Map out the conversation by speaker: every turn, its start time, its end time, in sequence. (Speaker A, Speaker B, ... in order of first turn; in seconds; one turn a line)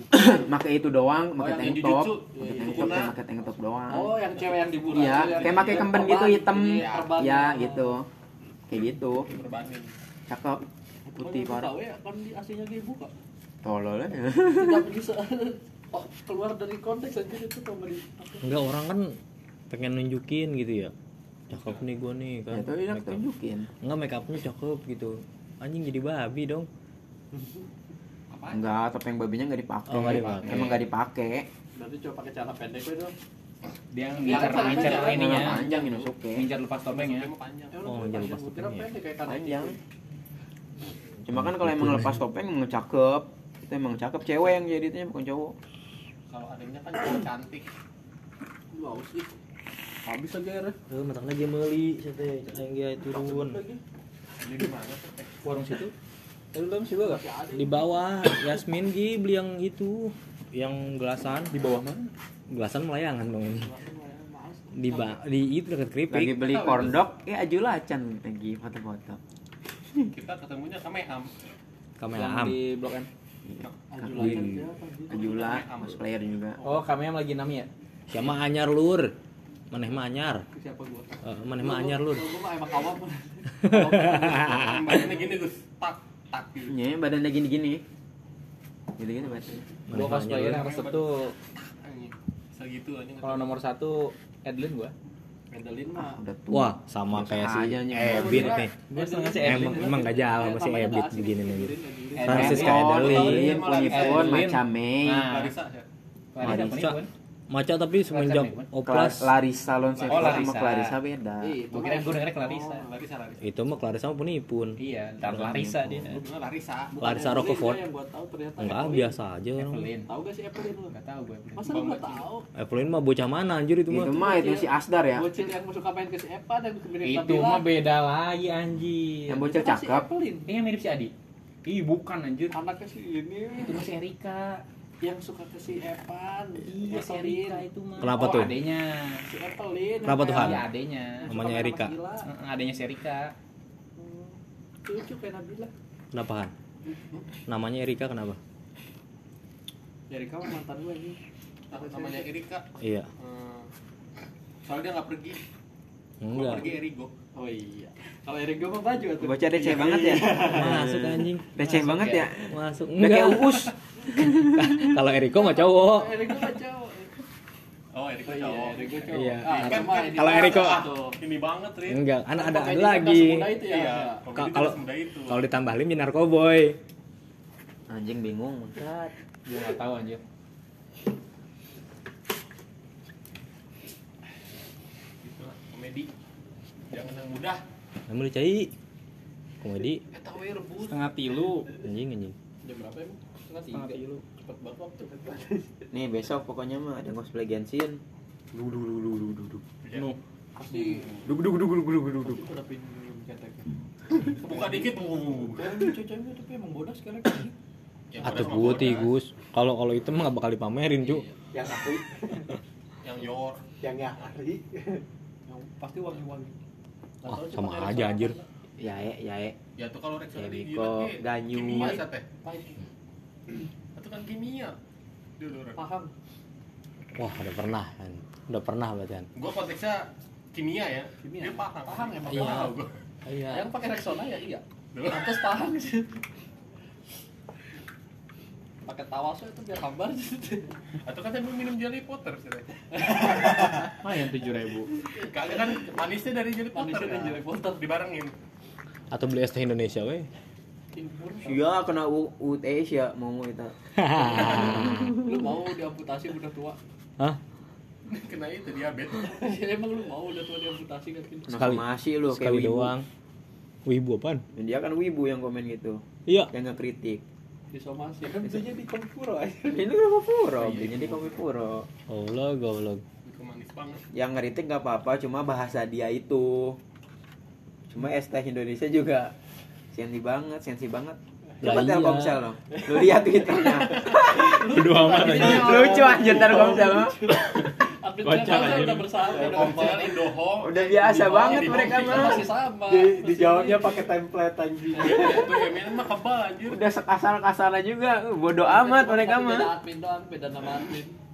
Speaker A: 0.1-0.5
Speaker B: 0.1-4.1
Speaker C: 1.4-3.1
Speaker A: 1.4-3.2
Speaker C: 3.9-8.0
Speaker A: 4.3-6.0
Speaker B: 4.8-8.1
Speaker A: 6.7-7.1
Speaker B: 8.7-9.3
Speaker A: 9.2-9.9
Speaker B: 10.3-11.7
Speaker C: 11.2-13.1
Speaker B: 13.6-14.9
Speaker C: 14.6-18.4
Speaker D: 18.4-19.1
Speaker D: 19.7-20.9
Speaker D: 21.5-23.2
Speaker B: 22.5-23.7
Speaker D: 23.8-26.7
Speaker A: 28.3-28.7
Speaker B: 28.5-31.5
Speaker D: 29.9-30.8
Speaker A: 30.4-30.8
Speaker C: 31.8-33.1
Speaker E: 33.9-37.3
Speaker C: 34.2-36.1
Speaker A: 34.2-35.6
Speaker B: 34.3-36.5
Speaker A: 36.7-37.8
Speaker C: 37.7-39.8
Speaker D: 37.8-38.9
Speaker B: 39.2-39.8
Speaker B: 41.2-45.5
Speaker D: 41.3-42.2
Speaker A: 46.3-47.7
Speaker C: 48.7-49.4
Speaker C: 50.0-50.8
Speaker D: 50.9-53.6
Speaker C: 52.2-53.8
Speaker A: 54.4-55.3
Speaker E: 55.4-55.9
Speaker E: 56.5-57.2
Speaker C: 57.0-57.9
Speaker D: 57.5-61.5
Speaker E: 61.5-62.1
Speaker D: 62.5-63.7
Speaker C: 63.6-65.1
Speaker D: 64.7-66.7
Speaker B: 66.1-69.2
Speaker A: 66.5-67.0
Speaker A: 70.1-71.4
Speaker D: 72.0-72.6
Speaker E: 72.1-73.1
Speaker B: 73.5-76.6
Speaker C: 73.9-75.4
Speaker D: 74.2-74.6
Speaker A: 75.1-76.0
Speaker E: 76.6-77.7
Speaker D: 78.1-79.1
Speaker D: 79.7-80.4
Speaker C: 80.5-85.0
Speaker D: 81.2-82.2
Speaker D: 83.6-85.0
Speaker A: 84.4-86.7
Speaker B: 86.7-87.8
Speaker B: 89.0-89.6
Speaker D: 89.9-90.7
Speaker E: 89.9-91.3
Speaker A: 90.2-93.5
Speaker E: 93.2-94.9
Speaker C: 95.5-96.2
Speaker B: 95.9-98.6
Speaker D: 96.5-98.7
Speaker E: 98.0-100.0
Speaker C: 98.0-102.6
Speaker D: 99.3-103.6
Speaker E: 102.1-105.5
Speaker B: 102.2-105.3
Speaker A: 102.5-104.5
Speaker A: 105.1-105.8
Speaker E: 106.3-107.1
Speaker B: 106.4-106.8
Speaker D: 106.4-109.3
Speaker E: 108.1-108.7
Speaker B: 108.8-111.6
Speaker A: 109.8-110.6
Speaker E: 110.1-110.9
Speaker C: 111.4-112.9
Speaker E: 111.7-112.8
Speaker A: 112.8-113.8
Speaker D: 113.4-114.8
Speaker E: 114.8-116.2
Speaker B: 115.3-115.8
Speaker D: 115.3-115.7
Speaker A: 116.0-116.9
Speaker C: 116.9-119.2
Speaker D: 117.0-117.8
Speaker D: 118.6-119.9
Speaker E: 119.5-120.1
Speaker C: 120.0-121.0
Speaker E: 120.9-122.2
Speaker C: 121.5-122.5
Speaker D: 122.5-124.2
Speaker B: 123.9-125.3
Speaker C: 124.1-127.7
Speaker E: 127.0-129.5
Speaker B: 129.3-130.0
Speaker C: 129.5-130.5
Speaker E: 130.5-131.1
Speaker E: 131.7-132.6
Speaker C: 132.5-133.9
Speaker E: 133.6-134.6
Speaker C: 135.0-137.6
Speaker E: 136.7-139.2
Speaker D: 138.0-138.6
Speaker C: 138.2-138.4
Speaker C: 139.3-140.7
Speaker D: 140.0-140.7
Speaker E: 140.2-141.3
Speaker C: 141.2-142.3
Speaker D: 141.3-141.9
Speaker E: 142.2-143.3
Speaker C: 144.0-145.7
Speaker D: 146.1-146.5
Speaker D: 147.5-148.4
Speaker C: 150.1-151.2
Speaker C: 151.7-152.3
Speaker A: 151.7-153.7
Speaker D: 152.8-153.1
Speaker A: 154.6-155.4
Speaker D: 156.2-156.6
Speaker A: 156.3-157.1
Speaker C: 157.3-161.2
Speaker B: 159.2-164.9
Speaker D: 160.4-166.5
Speaker C: 165.2-167.2
Speaker A: 167.9-172.0
Speaker C: 168.2-171.2
Speaker D: 169.1-170.9
Speaker D: 171.8-173.6
Speaker C: 172.3-174.2
Speaker A: 173.6-175.4
Speaker D: 174.3-176.8
Speaker B: 177.9-178.9
Speaker E: 179.4-180.2
Speaker A: 185.2-186.1
Speaker A: 186.9-187.6
Speaker D: 188.1-188.7
Speaker D: 189.6-190.0
Speaker C: 190.1-191.0
Speaker E: 190.8-191.7
Speaker D: 191.8-192.3
Speaker C: 192.6-195.7
Speaker E: 193.7-194.2
Speaker B: 195.9-198.0
Speaker B: 198.9-199.6
Speaker A: 199.8-200.1
Speaker E: 199.9-200.2
Speaker C: 200.6-201.1
Speaker B: 201.4-202.1
Speaker C: 202.2-204.9
Speaker A: 204.4-205.7
Speaker C: 205.6-207.5
Speaker A: 208.1-209.1
Speaker D: 208.2-211.2
Speaker C: 211.0-211.4
Speaker F: 211.5-212.5
Speaker A: 213.0-213.6
Speaker F: 213.8-215.0
Speaker C: 215.5-216.6
Speaker C: 217.2-218.5
Speaker D: 217.3-218.3
Speaker B: 218.8-219.6
Speaker A: 219.8-222.2
Speaker B: 220.3-222.0
Speaker C: 222.4-222.8
Speaker A: 223.9-224.8
Speaker A: 225.4-225.8
Speaker C: 225.8-226.1
Speaker D: 227.2-229.3
Speaker A: 229.3-232.9
Speaker C: 231.2-232.7
Speaker D: 232.3-232.7
Speaker D: 233.2-233.7
Speaker C: 233.5-236.2
Speaker A: 234.9-235.5
Speaker C: 238.8-240.7
Speaker A: 241.0-243.7
Speaker C: 242.9-243.9
Speaker E: 243.7-244.9
Speaker C: 245.1-245.8
Speaker A: 245.2-248.3
Speaker C: 246.7-247.8
Speaker D: 249.1-250.3
Speaker C: 250.9-251.7
Speaker B: 251.4-255.1
Speaker D: 253.9-255.3
Speaker C: 254.4-256.8
Speaker A: 258.1-259.5
Speaker C: 259.2-261.6
Speaker B: 261.5-262.9
Speaker D: 261.5-263.1
Speaker D: 263.9-264.4
Speaker B: 264.5-267.2
Speaker D: 266.3-266.5
Speaker C: 267.7-269.9
Speaker B: 269.6-271.9
Speaker A: 270.6-271.3
Speaker D: 272.1-273.0
Speaker A: 273.2-274.0
Speaker B: 274.1-276.8
Speaker B: 277.9-279.3
Speaker B: 279.9-287.3
Speaker D: 281.6-282.4
Speaker C: 283.0-290.2
Speaker E: 284.6-285.9
Speaker A: 285.4-286.4
Speaker E: 288.2-289.3
Speaker A: 288.5-292.5
Speaker B: 290.6-292.5
Speaker C: 291.0-294.1
Speaker F: 292.8-295.6
Speaker C: 294.9-295.6
Speaker A: 295.0-296.9
Speaker B: 296.6-299.8
Speaker C: 298.6-301.1